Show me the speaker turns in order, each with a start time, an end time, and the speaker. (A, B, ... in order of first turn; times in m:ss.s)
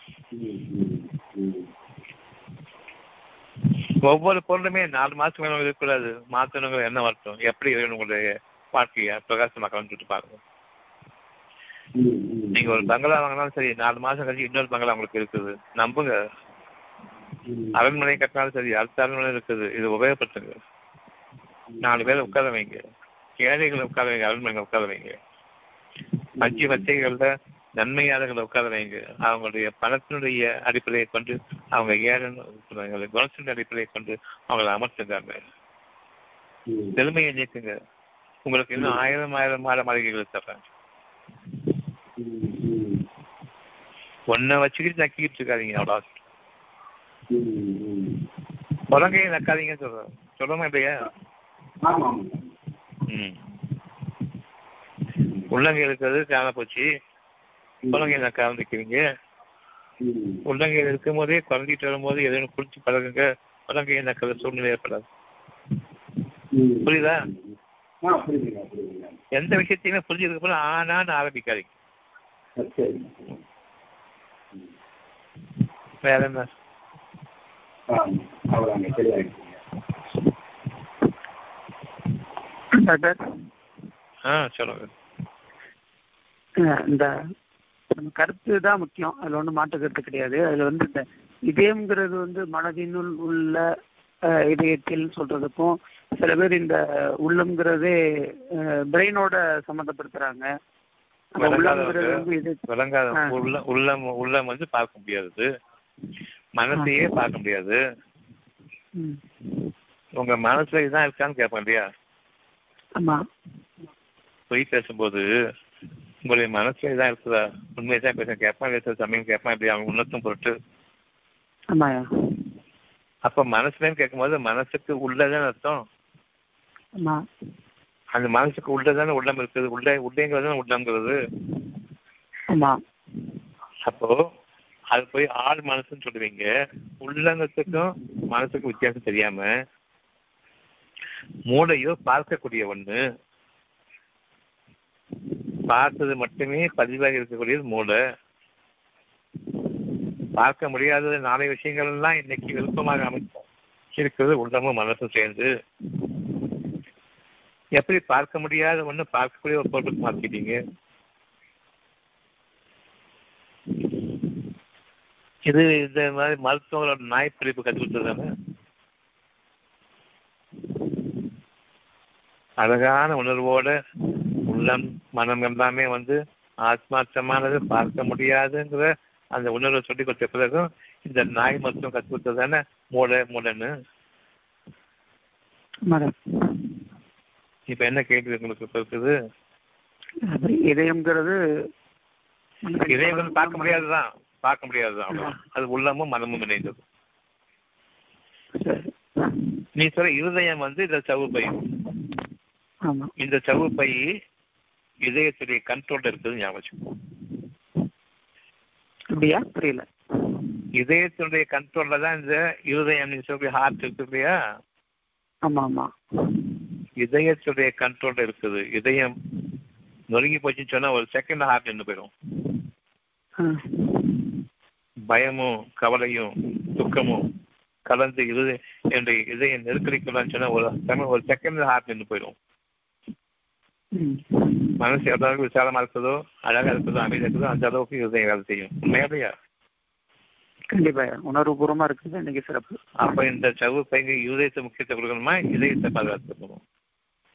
0:00.3-0:01.7 A
0:04.0-0:10.4 B
0:12.0-0:12.9 A
0:12.6-0:16.2 B
0:17.5-0:17.8 A
0:17.7-0:20.6 B
0:21.8-0:22.8 B
0:23.4-0:25.2 B
0:26.4-0:26.7 A
0:26.4-0:35.4 B
0:36.7-0:37.0 A
0:37.0-0:37.7 B
0:38.5-0:40.6 B
0:42.2-0:43.0 A
0:44.3-0:46.2 B
0:47.3-0:48.2 A
0:48.9-0:51.1 B
0:51.8-0:52.5 A
0:53.1-0:53.4 B
0:55.5-0:56.9 B
0:57.9-0:59.0 B
1:00.0-1:00.4 A
1:00.5-1:05.0 B
1:06.5-1:07.4 A
1:06.8-1:07.3 B
1:08.0-1:09.2 A
1:09.3-1:11.7 B
1:12.6-1:13.4 A
1:16.0-1:16.5 B
1:17.9-1:19.6 A
1:22.7-1:23.3 C
1:24.2-1:24.9 B
1:26.6-1:27.1 C
1:27.9-1:33.7 C
1:34.3-1:40.5 C
1:41.4-1:43.3 C
1:41.4-1:45.5 B
1:46.6-1:47.8 B
1:50.2-1:51.9 B
1:53.0-1:53.2 C
1:54.5-1:55.3 B
1:56.2-2:00.5 B
2:01.7-2:02.4 C
2:03.2-2:05.8 B
2:07.0-2:07.2 C
2:08.1-2:11.2 B
2:12.5-2:12.8 C
2:13.8-2:14.3 B
2:14.9-2:16.5 B
2:17.0-2:19.5 B
2:21.5-2:23.0 B
2:25.7-2:28.0 B
2:30.4-2:33.4 B
2:34.0-2:35.5 B
2:37.8-2:40.6 B
2:45.5-2:48.3 B
2:52.6-2:53.7 B
2:54.4-3:03.7 B
3:05.9-3:06.7 C
3:07.7-3:09.2 B
3:10.2-3:11.4 C
3:12.6-3:13.8 C
3:12.9-3:16.8 B
3:18.6-3:19.4 C
3:19.8-3:21.6 B
3:22.9-3:23.1 C
3:23.2-3:24.1 B
3:25.0-3:26.9 B
3:29.1-3:30.3 C
3:30.8-3:34.4 B
3:35.5-3:36.4 C
3:37.0-3:39.2 B
3:40.1-3:42.1 B
3:43.4-3:44.3 C
3:45.1-3:47.3 B
3:47.9-3:52.4 B
3:53.9-3:54.7 C
3:54.8-3:59.3 B
4:00.7-4:03.2 C
4:03.0-4:06.6 B